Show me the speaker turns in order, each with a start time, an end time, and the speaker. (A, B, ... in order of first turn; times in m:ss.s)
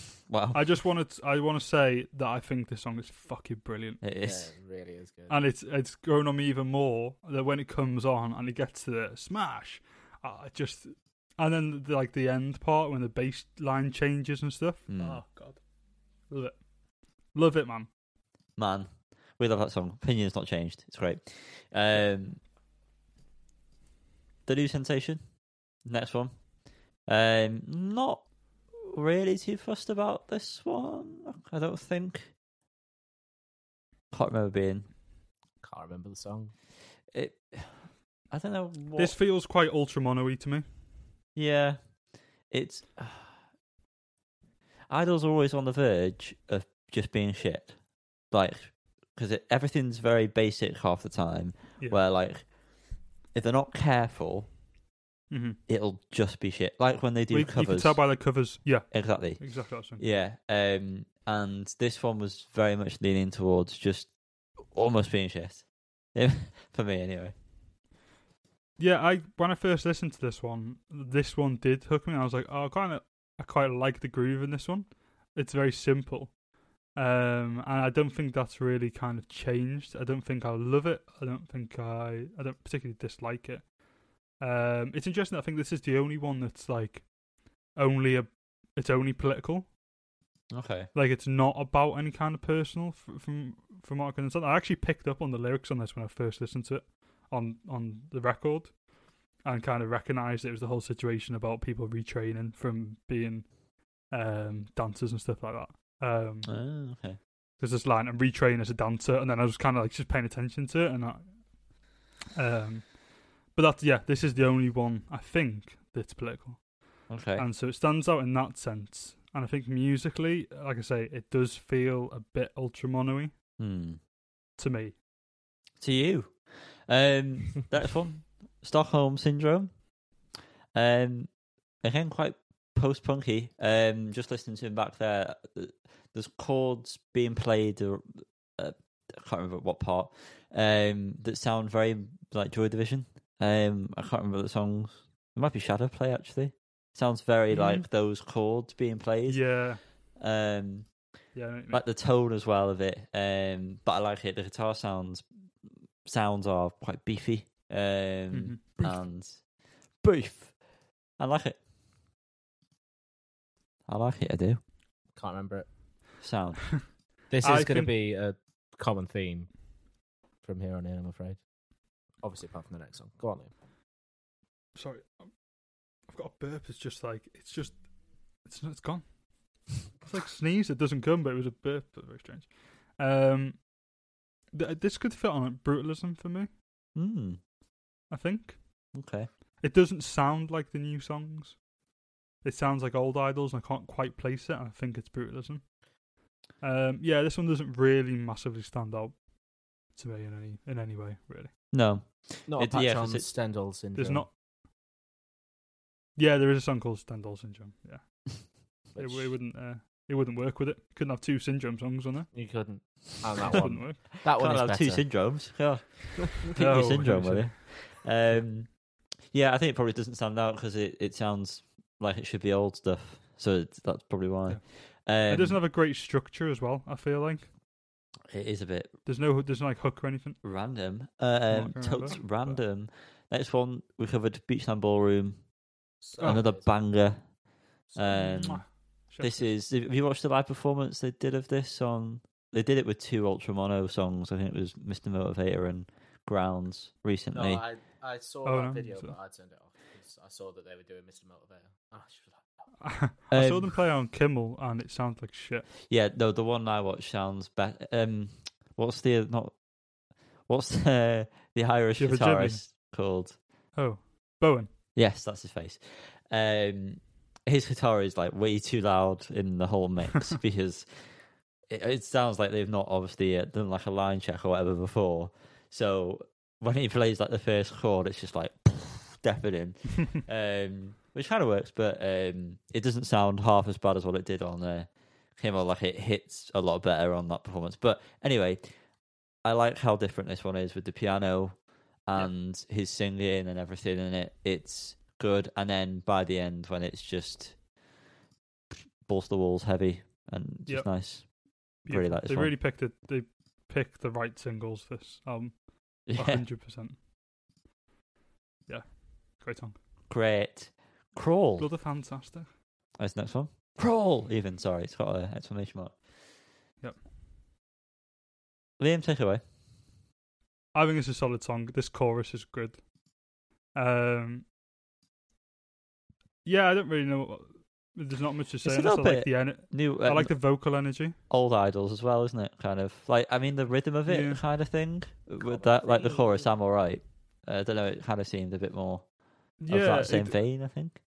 0:00.3-0:00.7 A
0:00.5-0:04.0 B
0:04.0-0:04.5 A
0:04.2-0:05.4 C
0:05.3-0:15.6 B
0:14.9-0:15.2 A
0:16.3-0:16.7 B
0:17.3-0:17.9 B
0:18.6-0:22.4 A
0:24.5-0:25.2 A
0:25.8-0:26.3 A
0:27.1-0:32.3 A
0:34.1-0:34.9 A
0:35.6-0:36.5 C
0:37.1-0:39.2 A
0:39.0-0:40.7 B
0:41.4-0:41.8 A
0:42.5-0:43.3 A
0:44.9-0:47.8 A
0:48.3-0:52.5 A
0:53.3-0:54.5 A
0:55.3-0:55.6 B
0:55.7-0:58.1 A
0:57.3-1:00.0 B
0:58.9-1:07.3 A
1:08.8-1:16.4 B
1:16.9-1:23.8 B
1:24.3-1:27.1 B
1:27.7-1:29.7 B
1:30.5-1:30.9 A
1:30.9-1:38.8 B
1:39.4-1:46.6 B
1:46.4-1:47.2 A
1:47.6-1:51.4 B
1:52.4-2:03.3 B
1:57.1-1:57.5 A
2:03.6-2:04.0 A
2:04.6-2:05.0 B
2:05.8-2:09.7 A
2:10.7-2:11.3 A
2:11.8-2:30.9 A
2:27.5-2:27.8 B
2:29.3-2:29.8 B
2:31.4-2:31.8 B
2:31.7-2:39.5 A
2:38.3-2:39.0 B
2:40.0-2:40.6 A
2:41.2-2:41.6 A
2:43.9-2:44.6 A
2:45.2-2:45.7 C
2:46.2-2:46.9 A
2:47.3-2:49.6 C
2:47.4-2:47.9 B
2:50.4-2:51.4 C
2:52.2-2:53.5 C
2:54.8-2:55.4 B
2:56.0-2:57.8 B
2:58.4-2:59.1 B
2:59.7-3:03.7 B
3:04.5-3:06.5 B
3:07.0-3:07.4 A
3:08.1-3:08.9 B
3:08.9-3:09.3 A
3:09.6-3:11.6 B
3:12.4-3:15.8 B
3:16.6-3:21.6 B
3:21.7-3:23.3 A
3:22.5-3:24.3 C
3:24.0-3:24.3 B
3:26.2-3:32.3 B
3:28.9-3:29.4 C
3:32.3-3:35.5 C
3:33.5-3:45.6 A
3:33.5-3:34.0 B
3:36.5-3:37.8 B
3:44.5-3:47.5 B
3:48.3-3:48.9 A
3:49.0-3:50.4 B
3:50.4-3:55.5 A
3:51.5-3:52.6 B
3:56.0-3:56.7 C
3:56.2-3:57.4 A
3:57.9-3:58.3 C
3:58.0-4:07.6 A
3:58.1-3:59.5 B
4:07.3-4:12.7 C
4:08.4-4:09.1 B
4:12.8-4:15.7 B
4:13.3-4:13.7 A
4:15.8-4:19.6 A
4:20.5-4:23.4 A
4:22.0-4:22.7 B
4:23.8-4:24.7 B
4:24.9-4:31.1 A
4:31.7-4:48.7 A
4:49.4-4:57.6 A
4:59.0-5:02.6 A
5:00.7-5:07.0 B
5:06.1-5:06.5 A
5:08.7-5:09.8 B
5:10.1-5:11.7 A
5:11.6-5:12.5 B
5:13.0-5:16.0 A
5:18.8-5:19.4 A
5:20.7-5:22.8 B
5:23.7-5:24.5 B
5:26.4-5:31.2 B
5:28.6-5:30.4 A
5:31.3-5:39.1 A
5:34.1-5:34.4 B
5:35.5-5:36.4 C
5:39.6-5:40.8 B
5:39.7-5:41.0 A